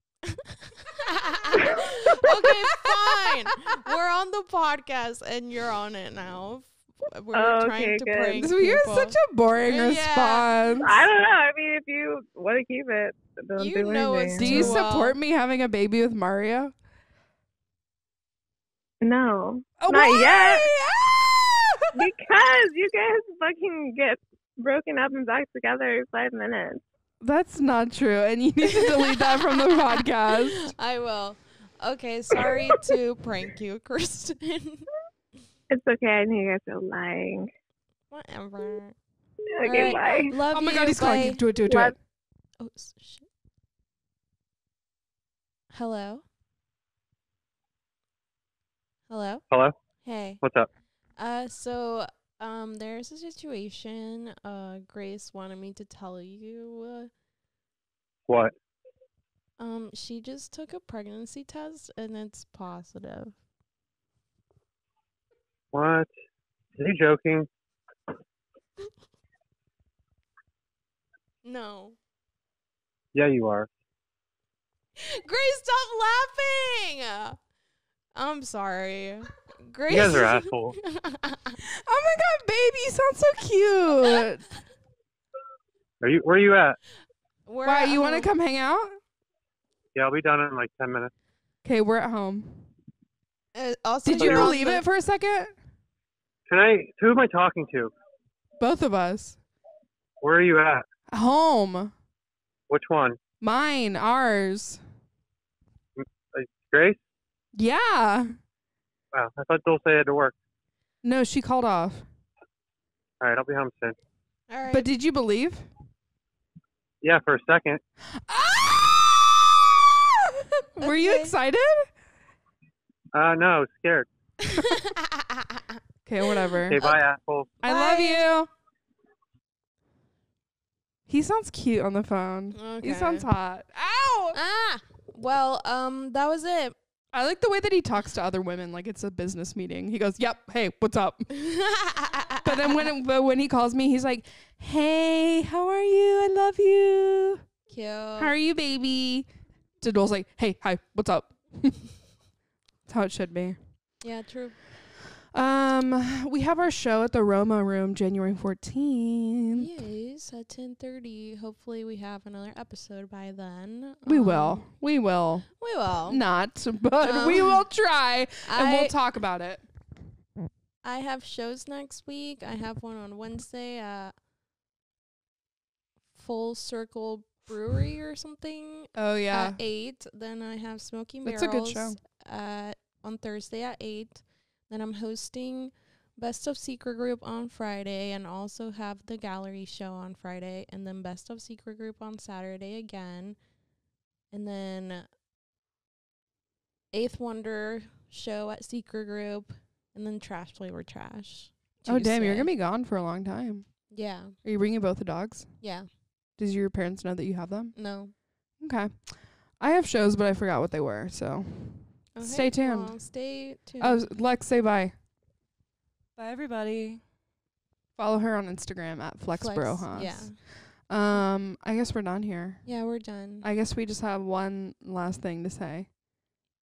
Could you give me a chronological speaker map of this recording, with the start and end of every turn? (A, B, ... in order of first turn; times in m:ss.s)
0:00.3-0:10.7 A
0:01.5-0:01.9 B
0:07.3-0:08.4 B
0:08.4-0:11.0 C
0:10.8-0:14.7 B
0:13.6-0:15.2 A
0:14.4-0:16.7 C
0:19.0-0:20.7 B
0:19.8-0:22.0 C
0:21.9-0:26.8 B
0:27.2-0:30.7 C
0:28.6-0:34.9 A
0:35.7-0:37.5 B
0:38.1-0:39.0 A
0:39.5-0:40.4 B
0:39.6-0:41.5 A
0:40.3-0:41.9 C
0:41.6-0:41.9 B
0:42.6-0:43.3 A
0:45.7-0:46.2 A
0:49.1-0:49.4 A
0:49.5-0:49.7 D
0:50.0-0:50.4 A
0:50.4-0:50.7 D
0:51.2-0:57.1 A
0:58.3-0:58.5 D
0:59.6-1:03.4 A
1:05.7-1:06.1 D
1:06.7-1:07.5 D
1:11.4-1:12.0 A
1:13.1-1:13.7 D
1:15.0-1:17.4 A
1:18.1-1:21.6 A
1:19.9-1:20.8 D
1:21.6-1:24.4 C
1:26.0-1:26.8 D
1:27.4-1:28.3 A
1:27.6-1:29.0 C
1:29.9-1:31.1 D
1:31.6-1:32.7 C
1:33.5-1:34.8 A
1:34.0-1:35.5 C
1:34.2-1:34.5 D
1:36.5-1:37.9 D
1:38.6-1:39.4 C
1:40.2-1:40.8 D
1:41.1-1:41.9 C
1:42.7-1:43.2 D
1:43.4-1:44.8 C
1:46.0-1:47.0 D
1:47.6-1:48.3 C
1:49.1-1:50.3 D
1:51.0-1:52.0 C
1:53.2-1:54.0 D
1:54.5-1:54.9 A
1:54.7-1:55.6 C
1:57.0-1:57.8 D
1:58.3-2:01.9 C
2:00.8-2:01.3 A
2:03.1-2:04.1 D
2:04.4-2:07.0 A
2:06.0-2:06.8 C
2:06.7-2:07.5 D
2:07.6-2:08.3 A
2:07.6-2:08.5 C
2:11.1-2:14.4 C
2:12.5-2:13.3 A
2:14.3-2:16.8 A
2:17.1-2:21.3 C
2:21.3-2:22.9 A
2:22.4-2:27.4 C
2:27.7-2:28.3 A
2:28.2-2:29.3 C
2:29.8-2:31.8 C
2:32.9-2:33.6 C
2:34.0-2:34.5 A
2:35.3-2:39.7 C
2:39.5-2:44.6 A
2:44.0-2:45.5 C
2:45.6-2:46.2 A
2:46.1-2:49.6 C
2:47.0-2:47.6 A
2:48.4-2:49.0 A
2:50.8-2:54.1 A
2:56.1-3:13.4 A
2:59.0-2:59.6 C
3:01.2-3:02.0 C
3:14.3-3:15.1 A
3:16.9-3:22.5 A
3:21.8-3:23.7 C
3:23.9-3:24.4 A
3:24.4-3:25.5 C
3:25.6-3:25.9 A
3:26.4-3:27.7 C
3:27.7-3:28.1 A
3:28.6-3:29.1 C
3:29.6-3:33.0 C
3:32.1-3:34.1 A
3:33.8-3:34.9 C
3:36.2-3:37.0 C
3:38.0-3:40.3 C
3:39.3-3:40.4 A
3:40.9-3:42.6 C
3:42.6-3:43.4 A
3:43.4-3:45.9 C